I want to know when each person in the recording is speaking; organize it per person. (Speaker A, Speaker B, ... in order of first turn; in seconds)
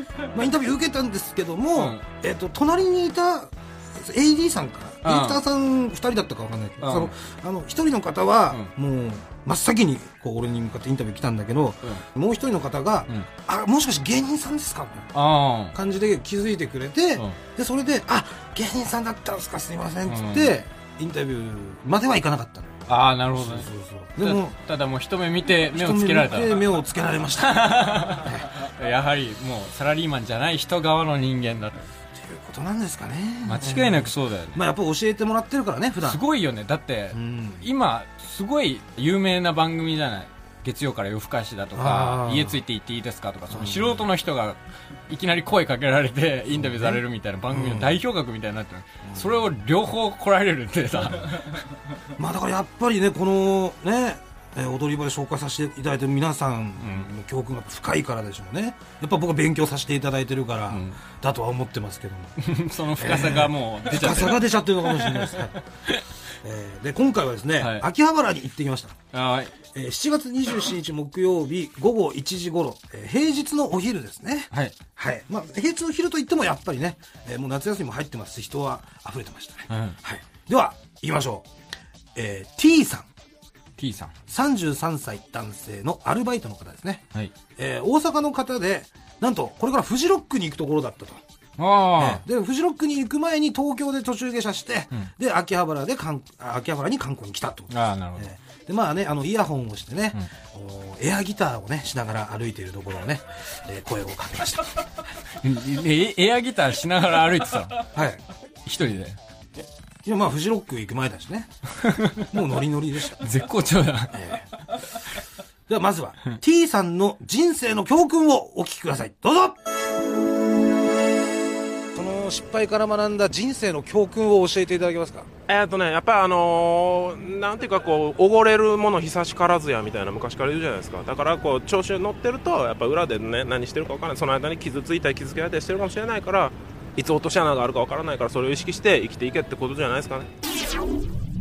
Speaker A: 0.3-15.1, 15.7-24.6, 25.7-28.5, 32.1-36.2, 37.1-37.7, 41.8-42.6, 43.5-44.1, 46.5-48.0, 49.1-49.5, 52.1-62.4, 63.0-65.6, 66.4-69.0, 69.7-81.5, 82.2-83.1, 84.3-91.2, 92.0-104.8, 107.9-108.2, 110.0-111.5, 112.3-113.2, 114.1-114.5, 115.7-119.6, 121.9-125.3
Speaker B: 1.8-2.1, 5.0-5.4, 6.8-7.1, 15.1-15.8, 20.1-20.6, 22.9-26.7, 27.4-31.9, 33.4-34.6, 36.0-44.6, 45.1-51.6, 56.8-57.1, 60.7-61.0, 62.4-66.0, 67.6-67.9, 69.1-69.5, 74.5-74.8, 79.7-80.0, 83.8-84.1, 91.6-92.2, 97.7-98.3, 105.4-107.9, 108.7-109.2, 111.7-112.3, 113.2-114.3
Speaker C: 125.5-140.3